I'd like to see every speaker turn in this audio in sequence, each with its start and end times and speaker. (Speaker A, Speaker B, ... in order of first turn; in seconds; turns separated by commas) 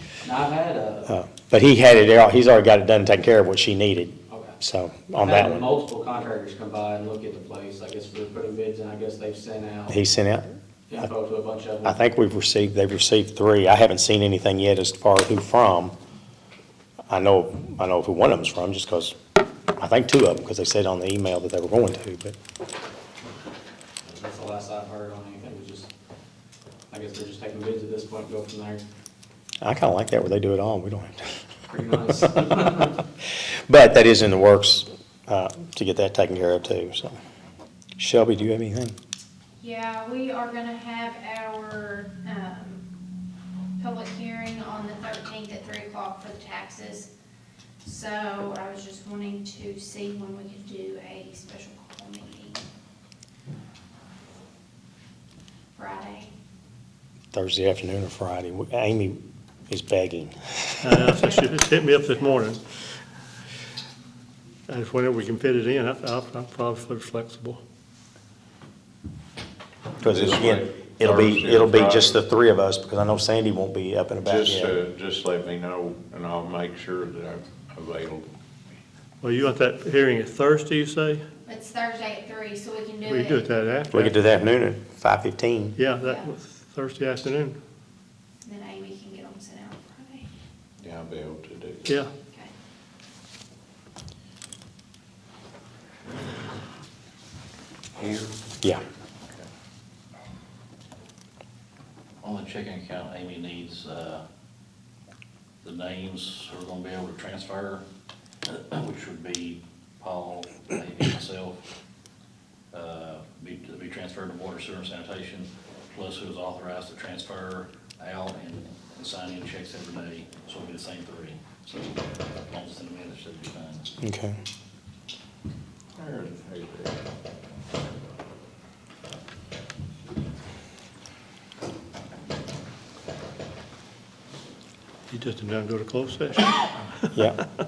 Speaker A: 0.2-1.1, Speaker B: 1.1-5.7, Speaker A: 4.3-4.6, Speaker A: 5.2-10.0, Speaker B: 9.9-10.5, Speaker A: 10.9-12.0, Speaker B: 11.8-15.9, Speaker B: 17.1-19.1, Speaker B: 19.8-22.4, Speaker A: 24.0-25.9, Speaker A: 26.9-28.9, Speaker B: 29.6-31.4, Speaker A: 31.7-33.0, Speaker B: 33.7-37.2, Speaker B: 38.0-39.0, Speaker C: 39.6-42.8, Speaker C: 43.8-47.1, Speaker C: 47.8-52.6, Speaker C: 55.8-56.3, Speaker B: 57.3-61.0, Speaker D: 60.8-62.6, Speaker C: 61.1-62.4, Speaker D: 64.7-67.6, Speaker E: 70.0-72.2, Speaker B: 70.0-74.7, Speaker E: 74.2-78.3, Speaker D: 79.2-81.2, Speaker C: 81.5-83.6, Speaker D: 83.0-84.1, Speaker B: 83.9-85.8, Speaker D: 85.8-87.6, Speaker C: 86.0-86.3, Speaker C: 88.4-90.3, Speaker E: 90.8-92.1, Speaker D: 91.8-92.1, Speaker E: 98.0-98.3, Speaker F: 102.2-104.2, Speaker F: 105.6-107.8, Speaker F: 108.4-111.6, Speaker F: 112.7-123.9, Speaker B: 124.0-124.4, Speaker E: 126.0-127.0, Speaker D: 135.1-137.1, Speaker B: 137.1-137.4